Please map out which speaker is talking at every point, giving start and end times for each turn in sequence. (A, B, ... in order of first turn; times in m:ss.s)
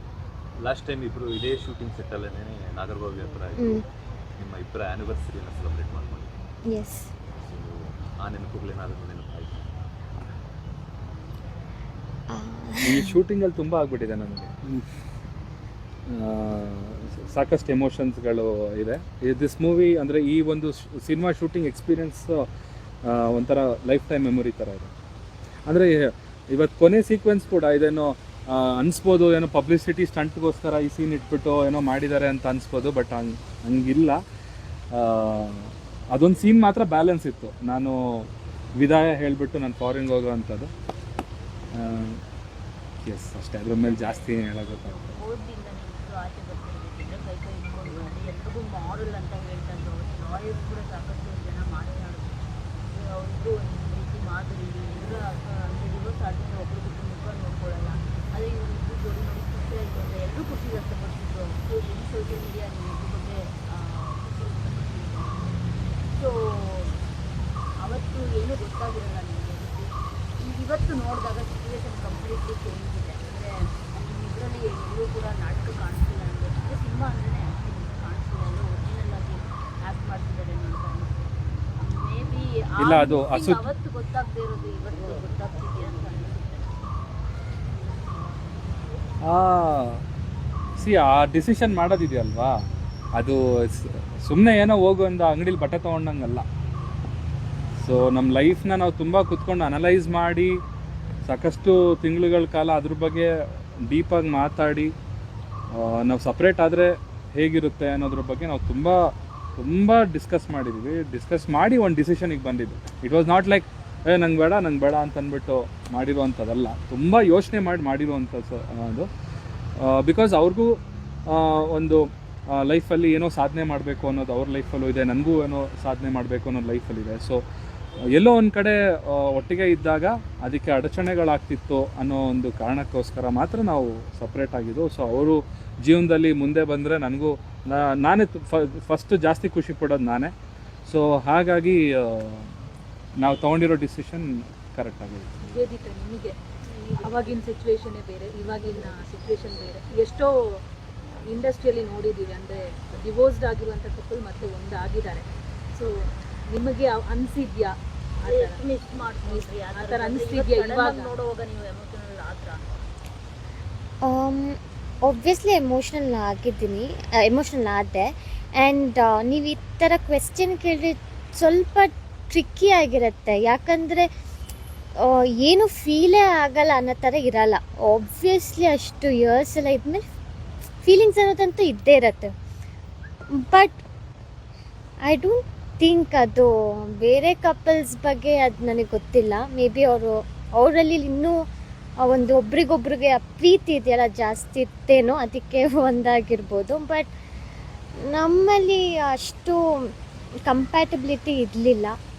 0:00.6-0:06.4 A
0:03.6-0:03.8 B
0:06.7-0:07.1 B
0:07.3-0:09.7 A
0:12.3-0:13.2 B
0:12.8-0:14.5 C
0:16.1-0:22.5 C
0:23.0-0:24.9 C
0:25.7-0:34.2 C
0:34.9-0:40.7 C
0:41.7-0:42.2 C
0:43.0-0:45.0 C
0:43.8-0:44.3 D
0:44.8-0:52.3 D
0:52.9-1:05.6 D
1:06.1-1:06.9 D
1:07.8-1:26.7 D
1:22.8-1:23.7 C
1:29.3-1:30.0 C
1:30.8-1:32.6 C
1:33.1-1:36.5 C
1:37.8-1:40.6 C
1:41.3-1:44.9 C
1:45.7-1:59.1 C
1:59.8-2:07.4 C
2:08.0-2:20.3 C
2:20.9-2:22.5 C
2:23.2-2:25.5 C
2:25.5-2:26.4 E
2:26.8-2:27.4 D
2:26.9-2:30.4 E
2:31.3-2:35.9 E
2:36.5-2:38.6 E
2:38.2-2:42.8 D
2:39.2-2:41.1 E
2:44.0-2:54.1 B
2:55.0-3:00.0 B
3:00.8-3:02.3 B
3:03.4-3:03.8 B
3:05.1-3:11.4 B
3:12.0-3:17.1 B
3:18.0-3:19.9 B
3:20.5-3:22.0 B